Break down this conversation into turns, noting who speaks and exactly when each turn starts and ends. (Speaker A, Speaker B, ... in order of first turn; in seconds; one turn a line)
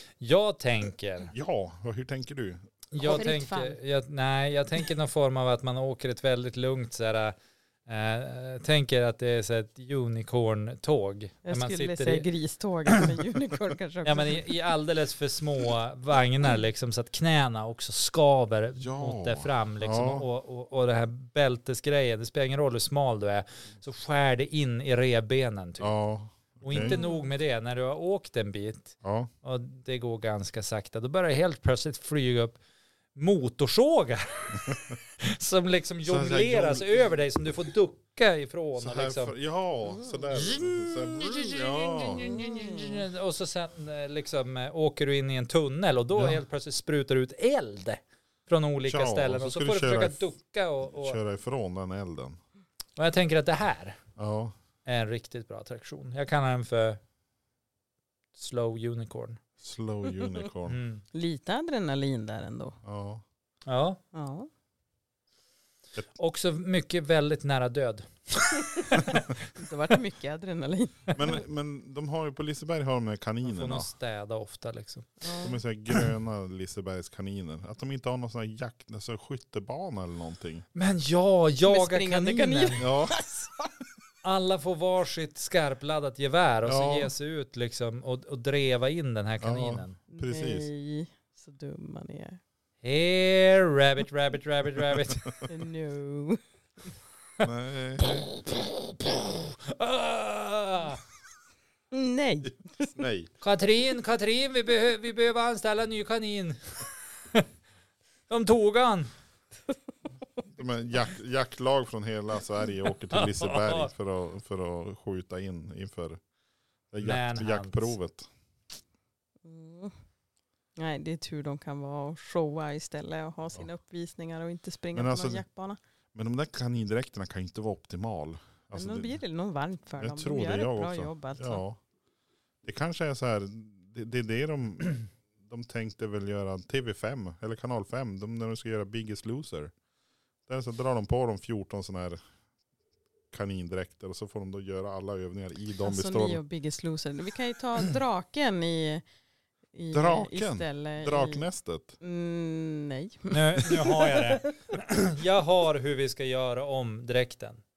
Speaker A: 0.2-1.3
Speaker B: 1.3-2.6
Speaker A: 2.9-12.3
Speaker C: 3.0-3.8
Speaker C: 11.4-14.5
Speaker A: 14.0-25.9
Speaker B: 18.8-20.2
Speaker B: 25.8-27.0
Speaker A: 26.6-32.6
Speaker C: 26.7-27.3
Speaker B: 29.0-29.3
Speaker A: 33.1-39.3
Speaker B: 36.0-37.2
Speaker B: 38.8-42.4
Speaker A: 40.3-51.2
Speaker C: 42.2-43.0
Speaker B: 48.9-50.2
Speaker B: 51.0-52.4
Speaker A: 53.0-54.0
Speaker B: 54.2-54.5
Speaker A: 54.8-57.0
Speaker A: 58.3-59.4
Speaker B: 59.6-60.8
Speaker A: 60.7-61.0
Speaker C: 61.1-62.8
Speaker B: 62.8-63.2
Speaker A: 63.7-64.0
Speaker C: 64.1-64.5
Speaker A: 66.1-69.3
Speaker C: 69.5-71.4
Speaker B: 71.1-73.9
Speaker A: 73.4-75.1
Speaker C: 75.2-75.6
Speaker B: 75.4-80.6
Speaker A: 80.7-82.8
Speaker C: 81.7-83.7
Speaker B: 82.8-83.1
Speaker A: 84.2-90.0
Speaker B: 86.6-87.1
Speaker B: 89.4-90.7
Speaker C: 90.1-92.4
Speaker A: 92.8-95.3
Speaker C: 95.5-96.4
Speaker B: 97.4-98.3
Speaker A: 98.9-101.0
Speaker C: 101.9-103.0
Speaker B: 103.0-103.3
Speaker A: 103.4-107.5
Speaker A: 108.3-109.1
Speaker B: 110.5-116.2
Speaker A: 113.1-113.9
Speaker B: 116.9-118.3
Speaker A: 117.0-117.9
Speaker C: 119.4-119.9
Speaker C: 120.8-125.8
Speaker B: 124.9-125.4
Speaker B: 126.1-129.2
Speaker C: 128.7-131.6
Speaker B: 130.0-131.8
Speaker B: 132.6-139.7
Speaker B: 140.5-142.2
Speaker B: 143.3-146.4
Speaker C: 145.8-149.0
Speaker C: 149.7-151.4
Speaker B: 149.9-151.9
Speaker C: 152.0-154.4
Speaker A: 153.3-157.6